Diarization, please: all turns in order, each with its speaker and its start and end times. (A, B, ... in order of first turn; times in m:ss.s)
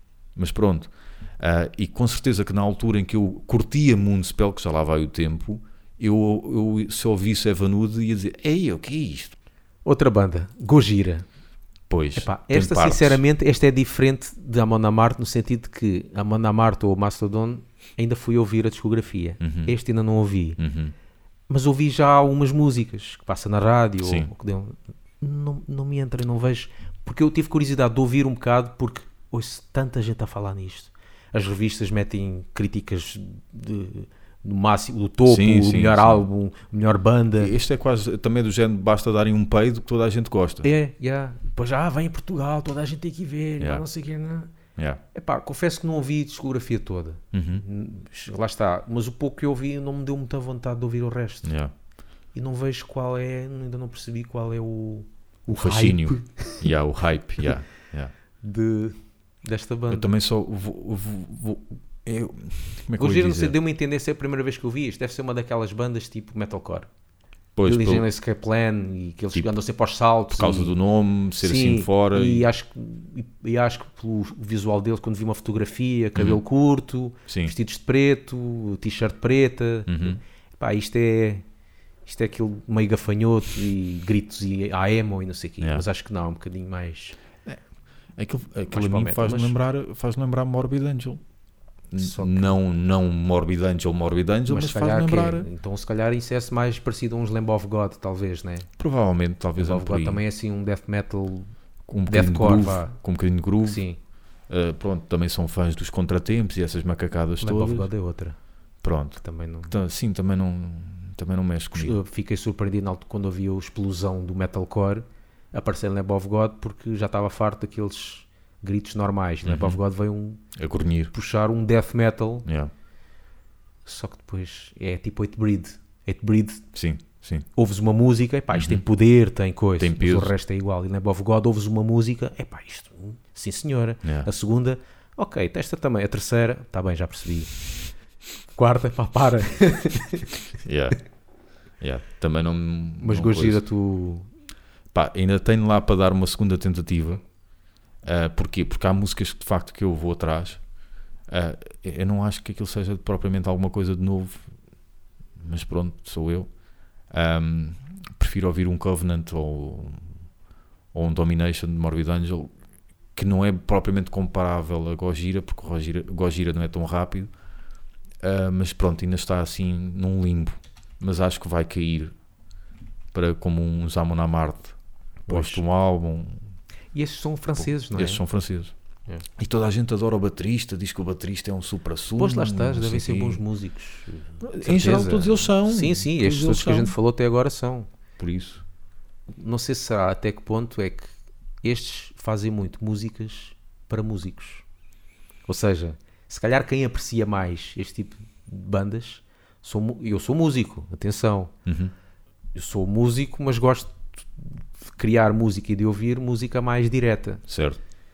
0:00.4-0:09.3 A
0:09.8-0:11.2 B
0:11.9-0:13.2 A
0:12.2-0:20.6 B
0:19.4-0:19.7 A
0:20.6-0:20.9 A
0:21.5-0:37.5 B
0:24.0-0:24.3 A
0:35.2-0:36.2 A
0:37.4-0:40.7 A
0:40.6-0:44.5 B
0:43.6-0:43.8 A
0:44.8-0:45.0 A
0:45.1-0:51.5 B
0:47.3-0:47.6 A
0:51.4-0:51.7 A
0:52.3-0:56.6 B
0:55.5-0:58.1 A
0:58.4-1:00.1 B
0:59.9-1:03.5 A
1:03.0-1:06.9 B
1:07.6-1:08.0 A
1:07.6-1:10.7 B
1:10.3-1:12.5 A
1:11.4-1:21.4 B
1:16.1-1:16.4 A
1:17.3-1:17.5 A
1:19.9-1:20.2 A
1:22.0-1:27.2 B
1:25.6-1:25.9 A
1:28.2-1:31.2 A
1:28.7-1:29.6 B
1:31.9-1:35.5 A
1:32.0-1:32.5 B
1:34.5-1:38.7 B
1:38.8-1:40.2 A
1:39.6-1:41.5 B
1:41.9-1:43.8 A
1:42.1-1:43.0 B
1:43.6-1:44.0 B
1:44.5-1:47.9 A
1:47.4-1:48.4 B
1:48.8-1:52.0 A
1:49.2-1:49.7 B
1:51.7-2:00.4 B
1:59.4-1:59.8 A
2:00.6-2:01.1 A
2:01.1-2:02.5 B
2:02.4-2:02.7 A
2:03.8-2:06.6 B
2:06.7-2:07.4 A
2:07.6-2:17.5 B
2:08.5-2:08.8 A
2:09.8-2:10.3 A
2:14.0-2:14.3 A
2:18.5-2:20.3 B
2:20.6-2:21.0 A
2:21.8-2:23.6 A
2:23.0-2:24.3 B
2:24.9-2:27.2 A
2:28.0-2:30.6 A
2:31.3-2:34.4 A
2:35.4-2:36.5 A
2:37.1-2:40.1 A
2:40.9-2:42.5 A
2:43.1-2:47.3 A
2:48.2-2:52.1 A
2:53.1-2:54.8 A
2:55.3-2:55.6 B
2:55.3-2:56.5 A
2:56.9-2:58.2 B
2:57.9-2:58.7 A
2:59.4-3:03.4 A
3:02.2-3:07.9 B
3:04.4-3:06.9 A
3:08.2-3:08.6 A
3:09.3-3:11.1 B
3:11.6-3:14.6 B
3:15.5-3:21.5 B
3:21.7-3:21.9 A
3:22.5-3:27.4 B
3:27.5-3:27.8 A